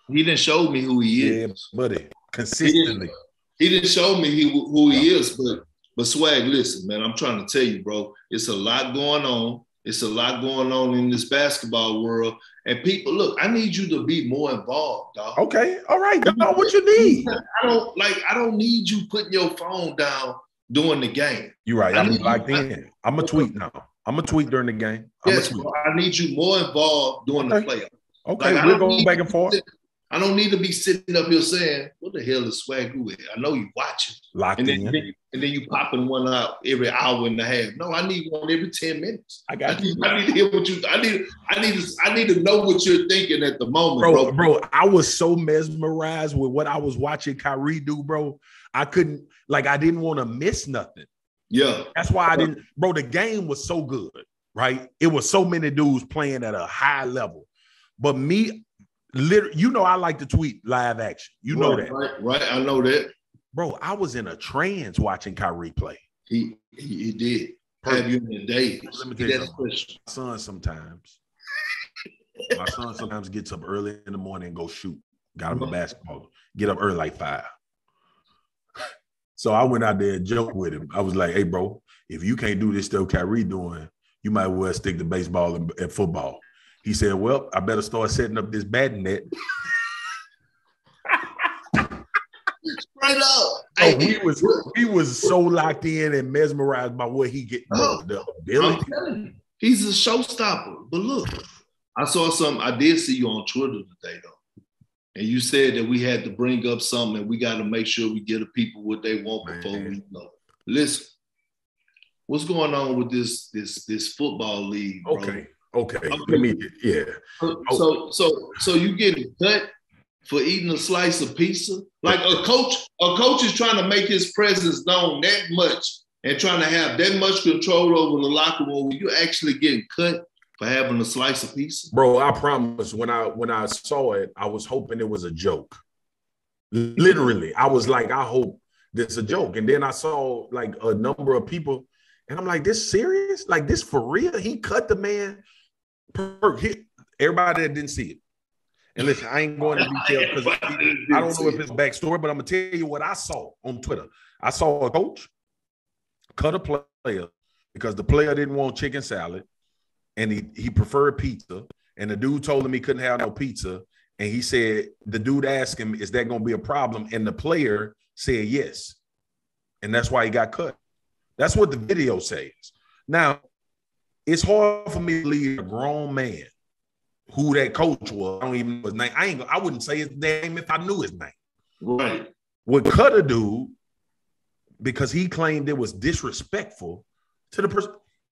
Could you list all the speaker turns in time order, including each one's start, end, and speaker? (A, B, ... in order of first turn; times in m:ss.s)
0:00.1-0:01.5 A
0:01.2-0:03.1 B
0:02.6-0:15.4 A
0:15.4-0:17.3 B
0:16.2-0:22.6 A
0:21.7-0:25.7 B
0:23.2-0:23.5 A
0:25.2-0:44.4 A
0:27.4-0:27.7 B
0:28.3-0:29.6 B
0:34.3-0:35.0 B
0:39.5-0:40.1 B
0:44.0-0:51.1 B
0:51.5-0:52.5 A
0:51.9-0:57.5 B
0:58.0-1:02.0 B
1:01.5-1:03.1 A
1:03.5-1:06.0 B
1:06.3-1:10.0 A
1:07.8-1:08.1 B
1:08.9-1:11.2 B
1:12.5-1:17.5 B
1:19.4-1:29.3 B
1:32.6-1:34.7 A
1:33.8-1:38.9 B
1:37.7-1:38.1 A
1:38.6-1:41.4 A
1:42.0-1:44.4 A
1:45.2-1:51.1 A
1:49.4-1:50.0 B
1:52.3-1:55.4 A
1:55.1-1:57.8 B
1:56.1-1:56.5 A
1:57.4-1:59.7 A
2:00.3-2:11.9 A
2:02.1-2:02.4 B
2:11.9-2:15.8 B
2:16.7-2:25.4 B
2:26.1-2:28.2 B
2:29.0-2:35.3 B
2:29.6-2:31.6 A
2:36.4-2:39.4 B
2:40.2-2:49.0 B
2:49.8-2:50.8 B
2:51.4-2:53.4 B
2:54.3-2:56.5 B
2:57.3-3:01.3 B
3:01.8-3:02.3 A
3:02.7-3:03.7 B
3:04.8-3:08.0 B